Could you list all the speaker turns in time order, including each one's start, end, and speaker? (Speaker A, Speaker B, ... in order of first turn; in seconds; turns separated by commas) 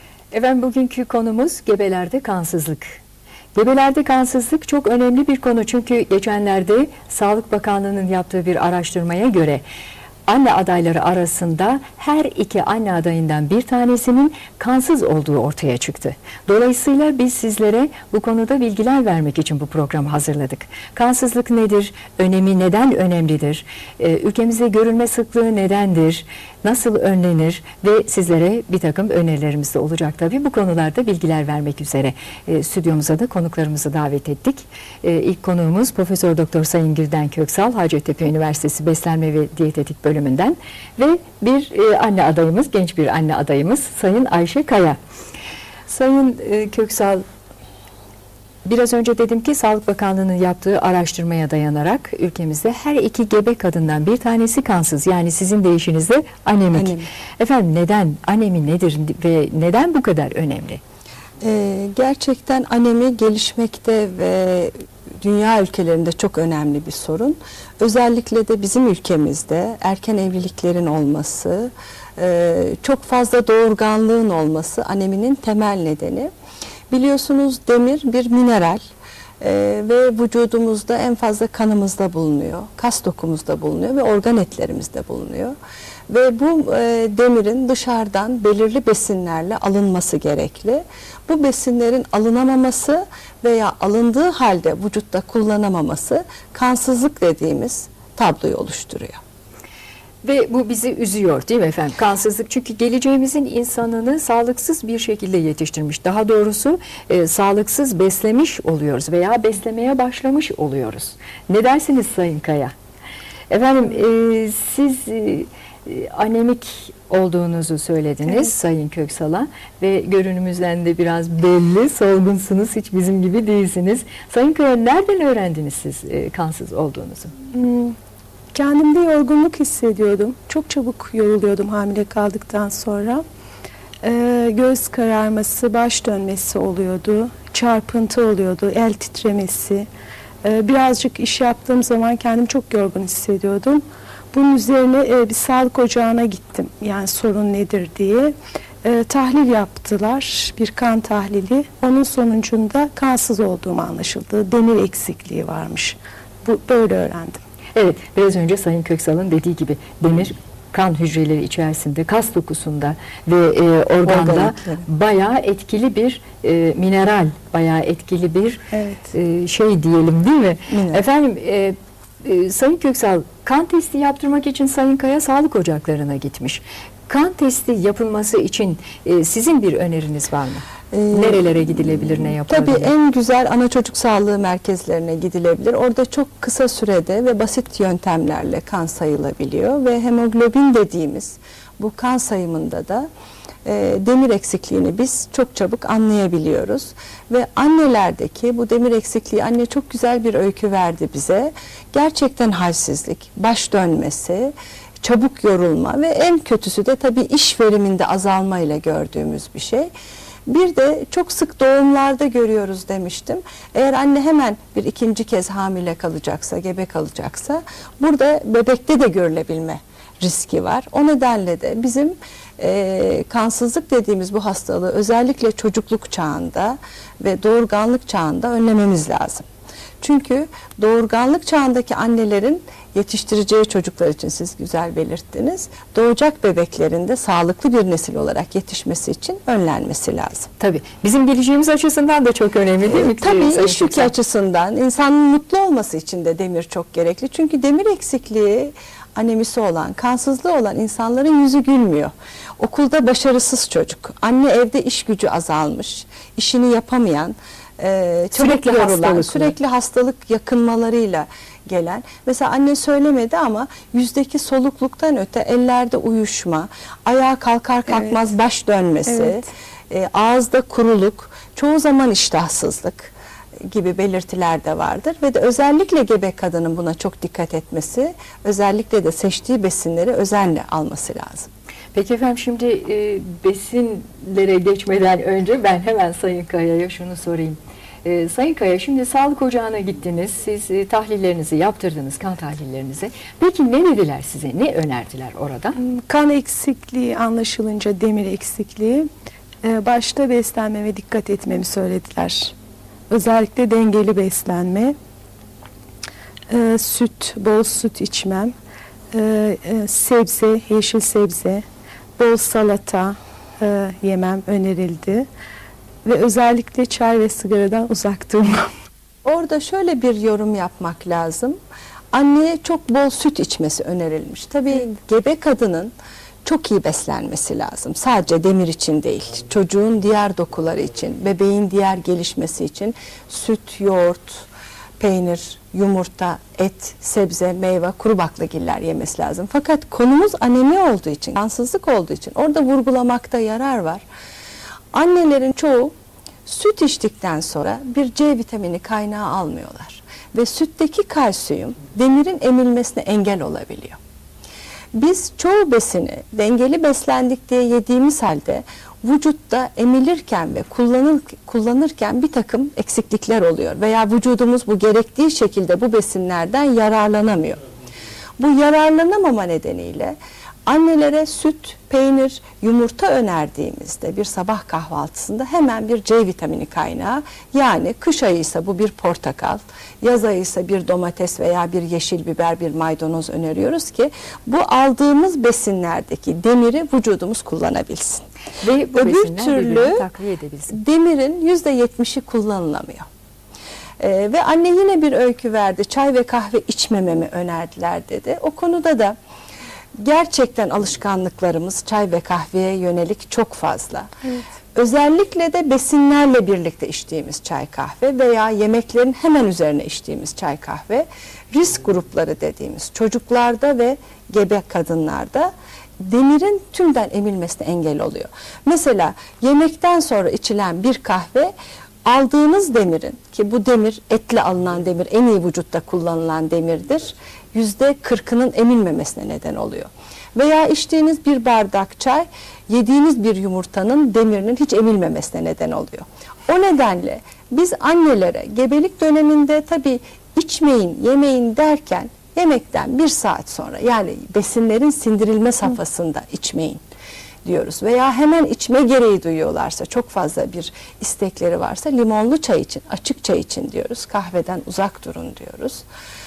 Speaker A: 0.3-3.0, Speaker A: 3.5-9.6, Speaker A: 10.3-45.0, Speaker A: 45.9-47.2, Speaker A: 48.6-60.8, Speaker B: 56.7-57.1, Speaker B: 61.4-76.3, Speaker B: 76.9-78.8, Speaker B: 79.4-85.5, Speaker B: 86.1-99.2, Speaker A: 100.2-112.7, Speaker A: 113.5-127.3, Speaker C: 127.5-127.9, Speaker C: 128.5-133.2, Speaker C: 134.0-139.8, Speaker C: 140.4-148.3, Speaker C: 148.8-157.4, Speaker A: 157.7-168.6, Speaker B: 164.0-164.9, Speaker C: 168.7-169.1, Speaker A: 169.1-182.9, Speaker B: 170.7-171.0, Speaker B: 180.9-193.1, Speaker B: 193.6-209.9, Speaker B: 210.5-229.4, Speaker B: 230.0-240.5, Speaker A: 240.6-244.1, Speaker B: 242.9-273.1, Speaker A: 258.3-259.5, Speaker C: 269.1-269.4, Speaker B: 273.7-281.5, Speaker A: 281.9-295.8, Speaker C: 295.8-299.1, Speaker C: 299.6-302.5, Speaker C: 303.1-304.9, Speaker C: 306.5-308.5, Speaker C: 309.1-311.6, Speaker C: 312.2-315.2, Speaker C: 316.0-318.6, Speaker B: 319.2-321.6, Speaker B: 322.1-325.9, Speaker B: 326.4-334.5, Speaker B: 335.0-344.0, Speaker B: 344.9-345.9, Speaker B: 346.4-354.0, Speaker B: 354.9-367.6, Speaker B: 368.4-388.2, Speaker A: 388.6-390.8, Speaker B: 388.9-390.1, Speaker B: 390.7-393.1, Speaker B: 394.0-399.1, Speaker B: 400.0-404.1, Speaker B: 404.7-421.5, Speaker B: 422.1-446.8, Speaker B: 447.4-455.8